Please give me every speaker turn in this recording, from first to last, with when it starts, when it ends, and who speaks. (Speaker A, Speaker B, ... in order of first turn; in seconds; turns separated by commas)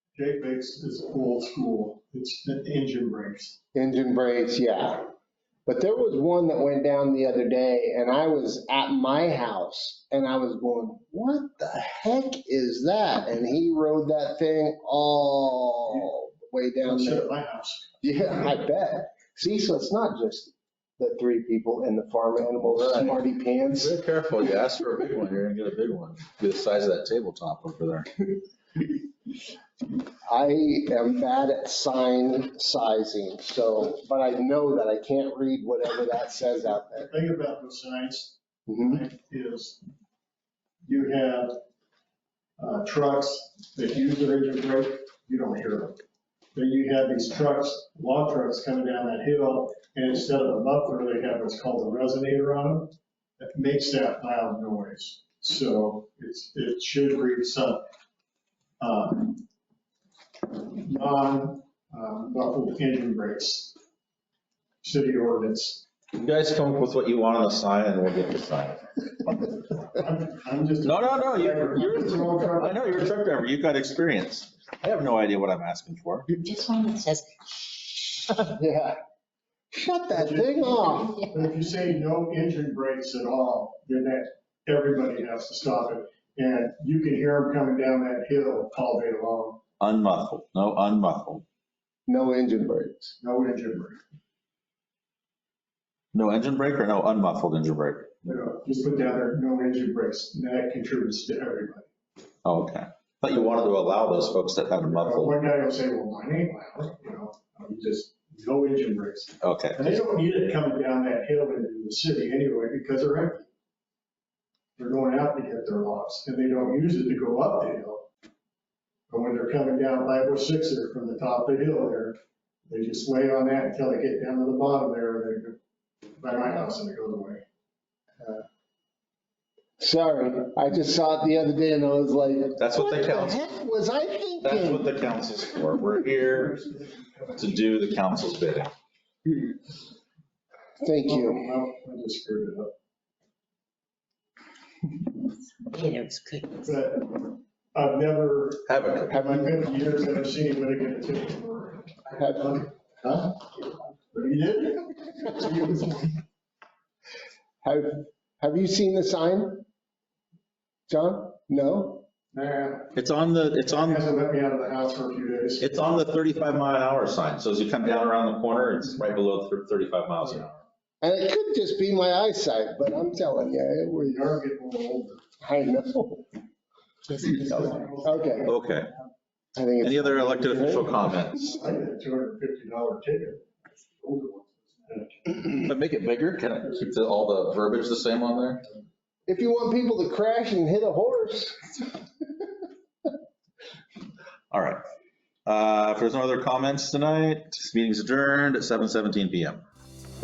Speaker A: 0.1-3.6, Speaker B: 3.7-5.1, Speaker B: 5.7-17.3, Speaker A: 16.8-17.9, Speaker B: 18.0-24.0, Speaker C: 22.7-28.1, Speaker B: 30.3-37.1, Speaker A: 36.9-39.8, Speaker B: 38.7-39.0, Speaker A: 40.8-41.6, Speaker A: 42.6-46.0, Speaker A: 46.5-57.8, Speaker A: 58.8-59.4, Speaker A: 60.5-63.8, Speaker A: 64.8-65.8, Speaker C: 66.1-69.5, Speaker A: 69.9-73.1, Speaker C: 70.8-76.3, Speaker D: 76.3-77.6, Speaker B: 78.3-79.0, Speaker B: 79.7-81.3, Speaker A: 80.1-89.6, Speaker C: 89.8-91.4, Speaker B: 92.1-93.1, Speaker A: 93.2-94.0, Speaker C: 96.1-98.1, Speaker A: 98.2-101.9, Speaker C: 102.5-105.3, Speaker A: 104.8-113.5, Speaker C: 109.4-110.0, Speaker A: 114.8-118.1, Speaker A: 119.1-125.6, Speaker A: 126.2-127.4, Speaker B: 129.8-134.9, Speaker C: 132.6-133.4, Speaker C: 134.4-136.6, Speaker A: 136.6-137.3, Speaker C: 137.4-138.7, Speaker B: 140.8-141.5, Speaker A: 141.1-142.7, Speaker D: 145.6-146.7, Speaker A: 146.6-156.2, Speaker C: 148.7-149.2, Speaker B: 157.6-159.7, Speaker B: 160.9-162.1, Speaker A: 162.3-162.9, Speaker C: 162.9-164.0, Speaker A: 163.6-165.7, Speaker C: 165.6-170.6, Speaker B: 171.0-174.3, Speaker A: 173.9-175.2, Speaker B: 175.4-176.3, Speaker A: 177.1-178.7, Speaker C: 177.2-177.8, Speaker B: 178.0-178.5, Speaker C: 178.4-178.9, Speaker B: 179.6-181.0, Speaker C: 179.8-181.6, Speaker A: 180.7-183.5, Speaker A: 184.0-185.6, Speaker C: 185.5-188.6, Speaker B: 189.3-191.7, Speaker C: 194.5-194.8, Speaker C: 195.4-199.6